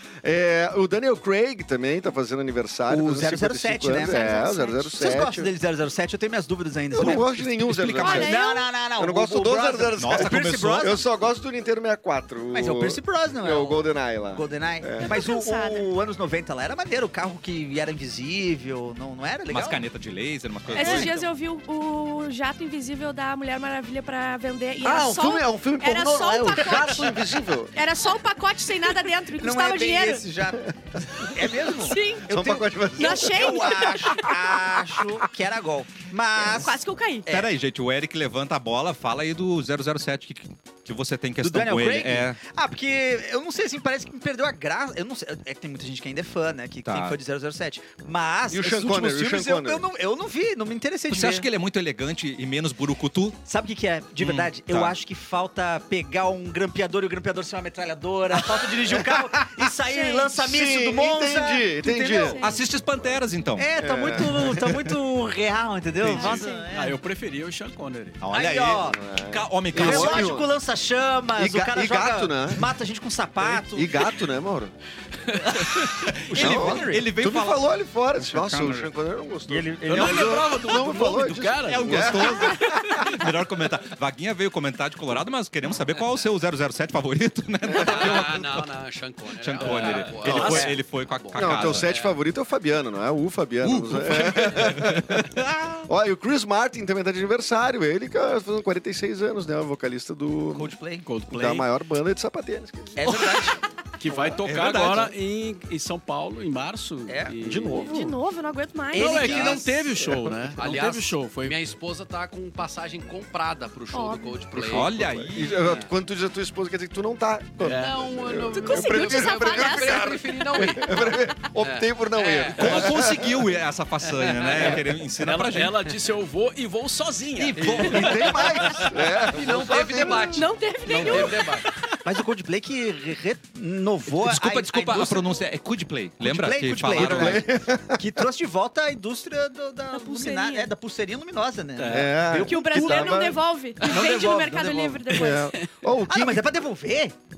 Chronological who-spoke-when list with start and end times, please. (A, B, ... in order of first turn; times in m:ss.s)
0:00.2-0:05.5 A
0:02.9-0:11.0 B
0:06.9-0:15.1 A
0:08.0-0:08.7 C
0:10.0-0:10.9 D
0:12.5-0:19.8 B
0:15.0-0:15.9 C
0:19.4-0:21.1 D
0:20.7-0:27.1 C
0:20.7-0:21.1 B
0:24.8-0:27.7 A
0:27.7-0:30.2 C
0:29.4-0:36.8 B
0:31.7-0:32.3 C
0:32.2-0:34.2 A
0:33.0-0:34.3 C
0:36.5-0:37.3 C
0:37.2-0:37.6 B
0:37.3-0:42.4 D
0:41.4-0:51.5 B
0:46.8-0:47.2 D
0:48.5-0:49.9 A
0:51.1-0:53.4 D
0:53.4-1:02.4 B
0:54.2-0:55.0 D
0:58.8-1:02.4 A
0:59.9-1:00.2 C
1:02.2-1:02.6 C
1:02.4-1:03.7 D
1:03.6-1:07.0 B
1:03.8-1:05.0 A
1:06.0-1:06.4 D
1:06.1-1:06.7 C
1:06.7-1:08.2 E
1:08.2-1:10.4 D
1:08.3-1:09.0 B
1:08.9-1:10.5 A
1:09.7-1:14.1 B
1:11.4-1:12.7 A
1:13.4-1:14.7 A
1:15.3-1:16.2 E
1:15.4-1:15.7 B
1:15.9-1:17.6 D
1:16.3-1:17.2 B
1:16.3-1:23.1 A
1:18.2-1:18.9 E
1:19.5-1:22.2 E
1:19.8-1:20.5 B
1:21.7-1:28.7 D
1:27.7-1:28.0 A
1:27.8-1:32.2 F
1:29.3-1:32.0 D
1:29.6-1:30.7 E
1:30.2-1:30.7 A
1:30.5-1:30.8 B
1:31.4-1:40.8 A
1:33.7-1:34.8 F
1:33.9-1:35.9 D
1:40.5-1:41.1 B
1:41.1-1:41.7 E
1:41.3-1:43.4 A
1:43.0-1:43.6 B
1:44.0-1:47.9 E
1:44.4-1:45.1 D
1:47.1-1:47.3 B
1:47.4-1:48.2 A
1:47.9-1:49.6 C
1:48.9-1:49.9 B
1:48.9-1:51.6 E
1:49.2-1:49.6 F
1:50.6-1:55.9 F
1:53.9-1:54.4 C
1:54.6-1:55.8 D
1:55.3-2:03.4 A
1:57.6-1:58.4 E
1:57.6-2:03.1 F
1:58.5-2:00.5 C
2:02.6-2:05.9 D
2:04.0-2:04.8 F
2:04.5-2:08.9 E
2:07.4-2:11.7 F
2:07.6-2:10.5 A
2:10.3-2:11.7 C
2:12.0-2:15.3 B
2:14.2-2:17.5 D
2:16.2-2:25.0 B
2:16.9-2:18.0 A
2:19.9-2:20.7 C
2:21.8-2:22.4 E
2:21.9-2:23.4 A
2:22.5-2:25.6 C
2:25.1-2:26.5 A
2:26.1-2:27.1 B